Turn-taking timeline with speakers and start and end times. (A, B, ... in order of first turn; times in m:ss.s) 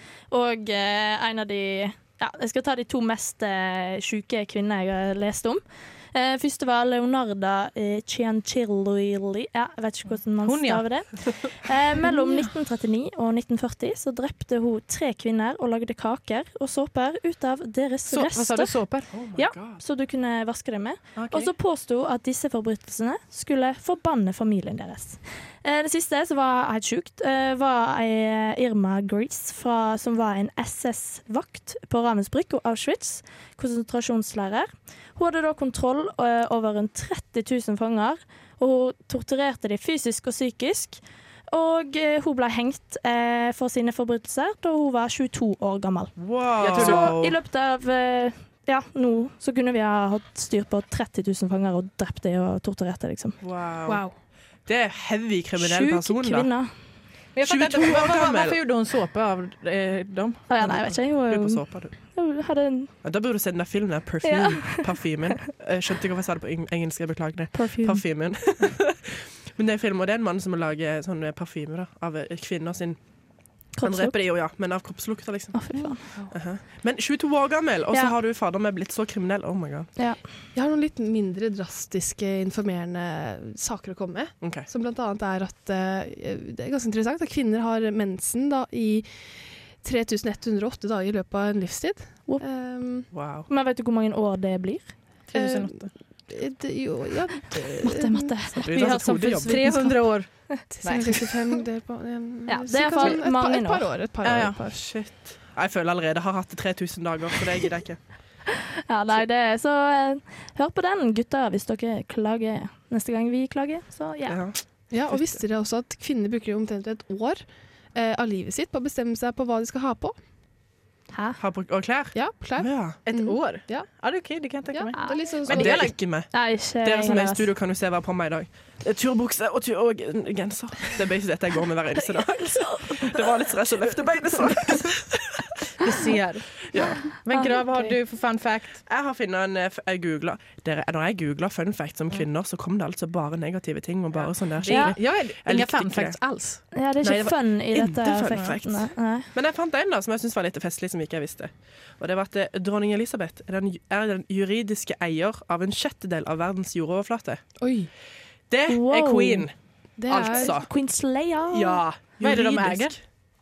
0:00.3-0:46.2 A
0:10.4-0:11.1 B
0:12.1-0:12.3 B
0:18.1-0:19.1 B
0:19.1-0:19.8 C
0:21.2-0:21.5 B
0:46.2-0:47.4 C
0:46.6-0:47.2 B
0:46.8-0:53.4 A
0:53.4-0:54.0 C
0:53.9-0:54.1 D
0:54.6-0:56.5 C
0:55.6-0:56.7 A
0:57.3-1:00.5 B
0:57.4-0:58.6 C
1:00.5-1:02.9 A
1:00.6-1:02.0 C
1:03.0-1:13.1 C
1:04.2-1:04.8 A
1:07.5-1:08.0 A
1:13.7-1:19.9 C
1:13.8-1:14.2 A
1:15.5-1:16.0 A
1:20.5-1:33.1 D
1:24.4-1:24.7 C
1:33.1-1:33.5 C
1:33.5-1:34.9 A
1:35.3-1:35.9 B
1:35.3-1:38.4 D
1:37.8-1:40.6 A
1:38.5-1:39.8 C
1:39.4-1:41.2 B
1:40.7-1:44.8 D
1:42.5-1:43.9 A
1:44.2-1:44.6 B
1:44.7-1:48.1 C
1:48.9-1:54.4 A
1:54.3-1:55.4 C
1:54.9-2:00.1 D
2:01.1-2:01.4 A
2:01.4-2:03.0 C
2:02.1-2:03.9 D
2:03.0-2:06.0 B
2:04.6-2:05.9 D
2:04.9-2:05.4 A
2:05.5-2:15.5 C
2:06.0-2:07.5 A
2:12.1-2:13.3 A
2:15.8-2:18.8 B
2:16.7-2:17.0 C
2:16.8-2:18.0 A
2:18.8-2:26.2 C
2:24.1-2:26.6 B
2:24.7-2:25.0 A
2:26.7-2:29.3 A
2:27.0-2:37.6 C
2:28.3-2:28.6 B
2:37.6-2:37.9 D
2:38.5-2:40.7 C
2:38.7-2:39.5 A
2:40.0-2:40.5 D
2:40.1-2:41.8 A
2:41.5-2:43.0 C
2:42.2-2:43.0 B